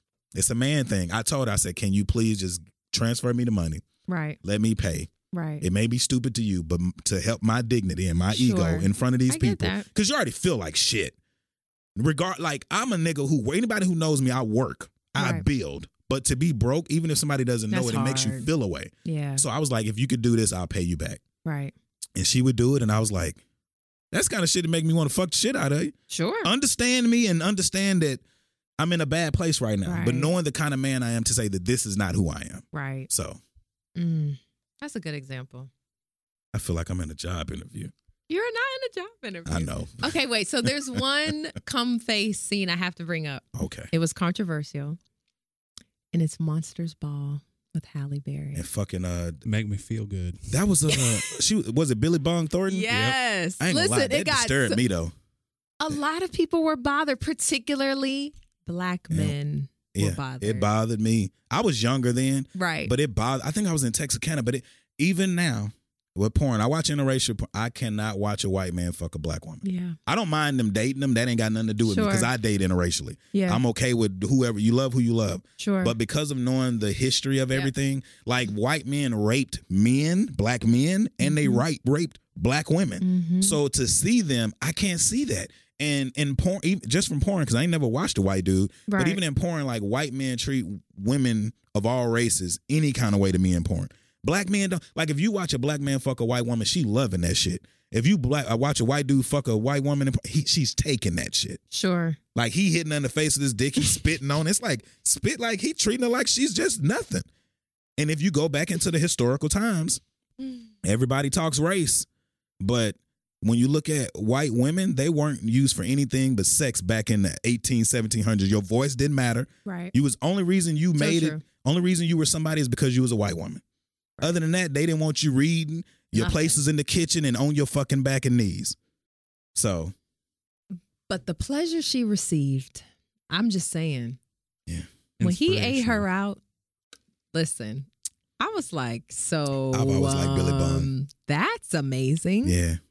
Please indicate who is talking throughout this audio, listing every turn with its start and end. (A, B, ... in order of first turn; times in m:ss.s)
0:00.3-0:03.8 A
0:04.1-0:04.4 B
0:04.4-0:11.2 A
0:05.3-0:05.7 B
0:08.3-0:09.9 B
0:12.0-0:21.2 A
0:15.2-0:15.5 B
0:17.7-0:18.5 B
0:19.0-0:19.4 B
0:21.4-0:21.7 B
0:22.2-0:23.4 A
0:24.1-0:28.2 A
0:26.1-0:26.5 B
0:28.8-0:33.4 A
0:29.8-0:30.3 B
0:32.7-0:33.1 B
0:34.0-0:35.7 B
0:36.5-0:37.9 A
0:38.3-0:45.0 B
0:39.5-0:41.0 A
0:43.6-0:43.9 A
0:46.1-0:48.6 B
0:48.6-0:49.4 A
0:49.4-0:50.6 C
0:50.5-0:55.1 A
0:52.7-0:54.8 B
0:55.8-1:00.7 B
0:59.1-0:59.4 A
0:59.9-1:41.6 A
1:02.6-1:02.9 B
1:09.6-1:10.0 B
1:11.9-1:12.3 B
1:13.3-1:13.6 B
1:15.6-1:16.0 B
1:21.2-1:21.6 B
1:23.0-1:23.6 B
1:28.9-1:29.2 B
1:41.7-1:42.2 B
1:42.4-1:47.3 A
1:48.0-1:50.0 A
1:50.8-1:52.1 A
1:52.6-2:03.6 A
1:59.6-1:59.9 B
2:01.0-2:01.4 B
2:04.2-2:08.8 A
2:06.2-2:06.6 B
2:09.6-2:09.9 A
2:11.1-2:14.2 B
2:15.2-2:16.0 C
2:15.2-2:16.4 B
2:17.3-2:17.9 B
2:18.4-2:22.6 B
2:19.7-2:20.9 A
2:22.4-2:22.8 A